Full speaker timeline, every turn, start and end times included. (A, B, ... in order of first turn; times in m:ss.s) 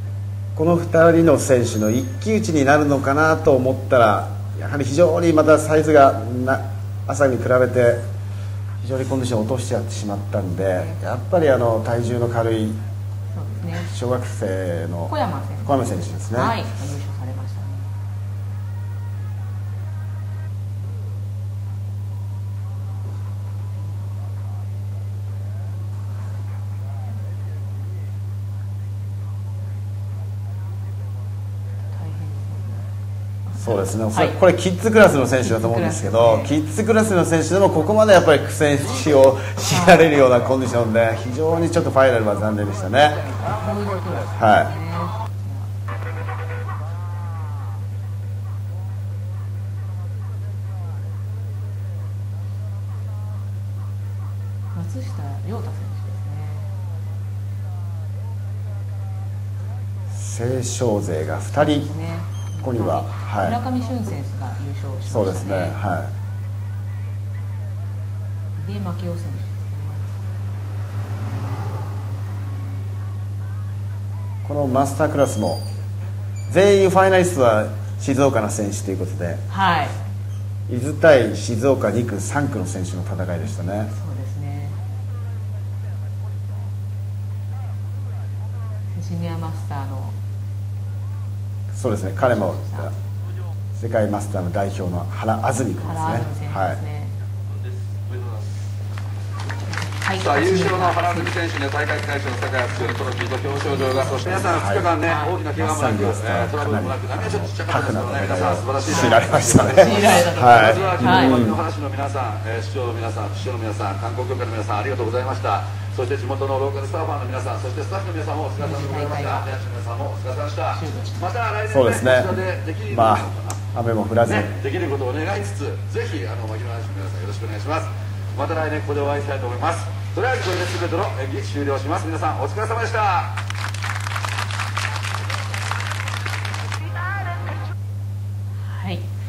0:00.6-0:08.0 A
0:08.8-0:12.8 A
0:13.3-0:13.9 B
0:13.8-0:16.6 A
0:15.1-0:17.9 B
0:31.9-0:32.8 B
0:33.4-0:34.4 B
0:33.6-0:43.2 A
0:35.4-0:36.5 B
0:39.7-0:40.1 B
0:43.6-0:45.7 B
0:44.4-0:44.7 A
0:54.7-0:56.7 B
1:00.1-1:01.9 A
1:01.5-1:05.8 B
1:02.6-1:03.6 A
1:05.0-1:06.1 A
1:08.6-1:10.2 B
1:14.4-1:15.6 A
1:16.5-1:19.4 A
1:19.5-1:20.0 B
1:20.7-1:23.9 A
1:23.9-1:24.8 B
1:28.9-1:30.2 B
1:31.7-1:32.9 A
1:32.2-1:32.9 B
1:33.7-1:36.8 A
1:35.8-1:37.1 B
1:37.5-1:38.4 C
1:39.7-1:41.3 B
1:40.2-2:03.6 C
1:42.7-1:45.6 B
1:44.3-1:44.9 A
1:45.6-1:51.6 A
1:48.8-1:51.4 B
1:58.6-1:59.5 B
2:00.7-2:01.2 B
2:01.7-2:02.4 A
2:02.9-2:04.5 A
2:04.2-2:13.4 C
2:18.6-2:19.1 B